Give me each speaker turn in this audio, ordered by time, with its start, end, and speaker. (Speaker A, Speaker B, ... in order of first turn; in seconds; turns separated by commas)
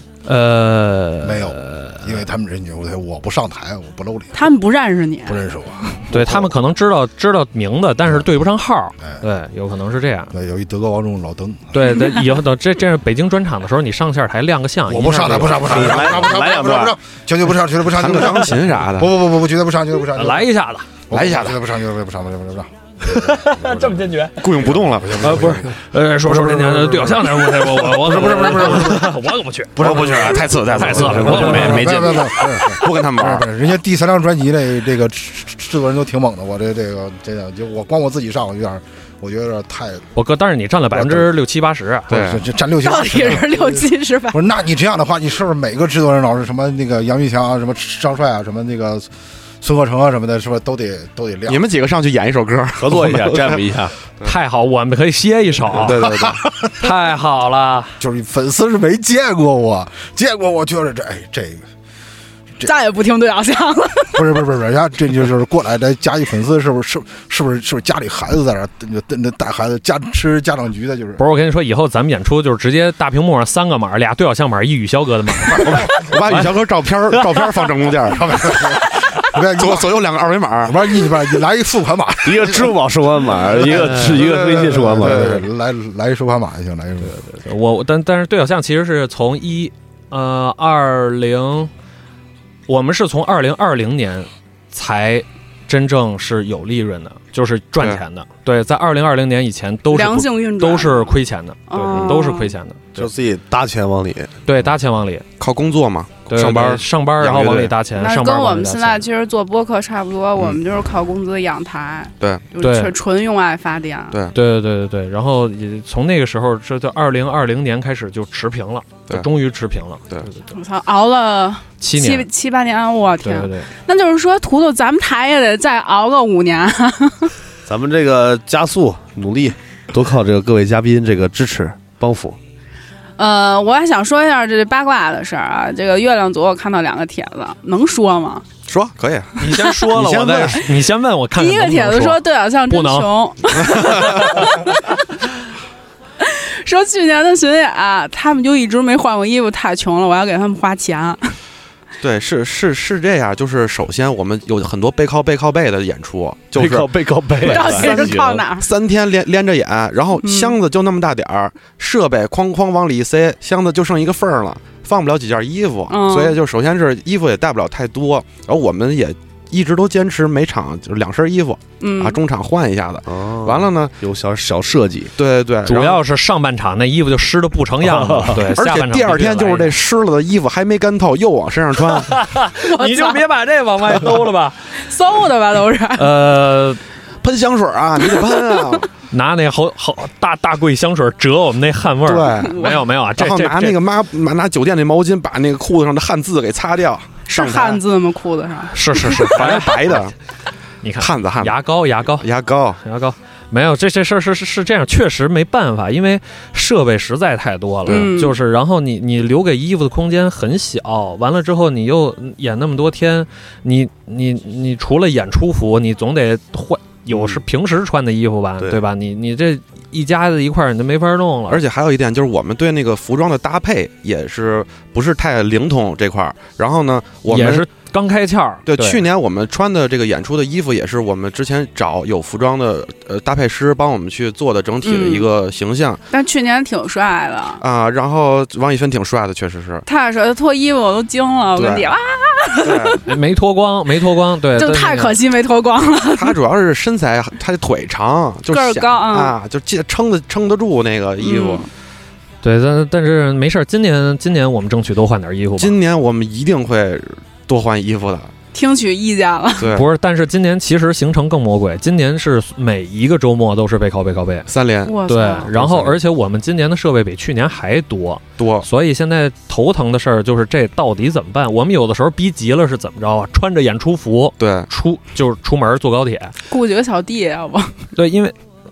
Speaker A: 0.2-2.2, Speaker B: 1.2-4.5, Speaker C: 4.3-5.4, Speaker B: 5.2-6.5, Speaker A: 6.1-10.3, Speaker B: 10.3-12.0, Speaker A: 11.7-15.8, Speaker B: 14.9-20.5, Speaker D: 15.6-17.0, Speaker E: 17.9-19.2, Speaker A: 20.1-20.9, Speaker B: 21.1-29.2, Speaker E: 21.1-21.6, Speaker A: 23.0-24.5, Speaker E: 24.4-25.5, Speaker A: 25.1-31.9, Speaker E: 29.8-33.5, Speaker B: 29.8-40.1, Speaker D: 31.1-32.4, Speaker A: 40.1-42.1, Speaker B: 40.9-41.4, Speaker E: 42.1-42.4, Speaker B: 42.1-51.6, Speaker C: 42.8-44.4, Speaker E: 51.5-53.6, Speaker D: 52.8-53.9, Speaker A: 54.2-56.1, Speaker E: 55.8-56.4, Speaker B: 56.0-56.9, Speaker A: 56.8-57.9, Speaker B: 58.0-61.6, Speaker C: 62.6-64.3, Speaker B: 64.1-71.2, Speaker A: 71.2-76.4, Speaker B: 75.5-75.9, Speaker E: 75.6-78.5, Speaker A: 77.1-77.5, Speaker B: 78.1-80.0, Speaker E: 79.6-80.8, Speaker B: 80.6-82.8, Speaker D: 82.2-85.5, Speaker B: 83.5-87.2, Speaker A: 87.0-91.7, Speaker A: 92.7-102.9, Speaker C: 99.9-102.5, Speaker D: 103.0-104.3, Speaker A: 104.5-105.2, Speaker E: 105.4-107.8, Speaker A: 106.3-109.0, Speaker C: 108.0-114.2, Speaker E: 112.2-112.5, Speaker A: 112.6-112.9, Speaker A: 114.3-120.5, Speaker C: 120.5-127.3, Speaker A: 121.8-122.3, Speaker A: 123.2-123.7, Speaker D: 127.7-132.4, Speaker C: 133.2-138.5, Speaker E: 138.7-140.7, Speaker A: 139.4-143.1, Speaker C: 141.4-144.8, Speaker E: 143.7-144.2, Speaker C: 146.2-151.4, Speaker E: 152.0-156.9, Speaker D: 156.6-158.4, Speaker C: 157.4-158.7, Speaker E: 157.4-173.9, Speaker C: 160.2-160.6, Speaker C: 165.9-166.4, Speaker C: 171.8-172.2, Speaker D: 173.1-175.1, Speaker E: 175.2-176.0, Speaker A: 175.7-179.7, Speaker D: 177.9-178.3, Speaker E: 178.5-182.1, Speaker A: 181.9-184.7, Speaker C: 182.6-183.2, Speaker C: 184.8-186.2, Speaker A: 186.0-186.8, Speaker E: 187.2-188.9, Speaker A: 189.1-193.8, Speaker E: 192.1-197.8, Speaker C: 192.3-192.8, Speaker C: 197.3-199.1, Speaker A: 198.7-200.1, Speaker E: 199.1-200.1, Speaker A: 200.8-202.3, Speaker E: 201.0-202.8, Speaker A: 202.8-221.6, Speaker E: 207.9-208.1, Speaker C: 207.9-208.4, Speaker E: 221.5-227.7, Speaker A: 227.3-229.0, Speaker E: 228.7-236.0, Speaker C: 234.8-235.3, Speaker C: 236.1-237.6, Speaker E: 237.6-239.8, Speaker C: 239.8-243.0, Speaker E: 241.6-241.9, Speaker E: 242.6-243.0, Speaker A: 243.1-245.2, Speaker C: 244.6-246.4, Speaker E: 246.2-251.7, Speaker C: 248.5-249.4, Speaker C: 251.2-251.7, Speaker A: 252.4-255.8, Speaker E: 255.6-258.3, Speaker C: 258.5-259.8, Speaker E: 259.6-259.9, Speaker A: 259.7-264.5, Speaker E: 264.5-265.0, Speaker C: 264.9-265.5, Speaker A: 265.1-276.3, Speaker E: 265.5-266.0, Speaker E: 268.4-268.7, Speaker E: 274.4-274.7, Speaker C: 276.5-277.8, Speaker A: 277.9-278.4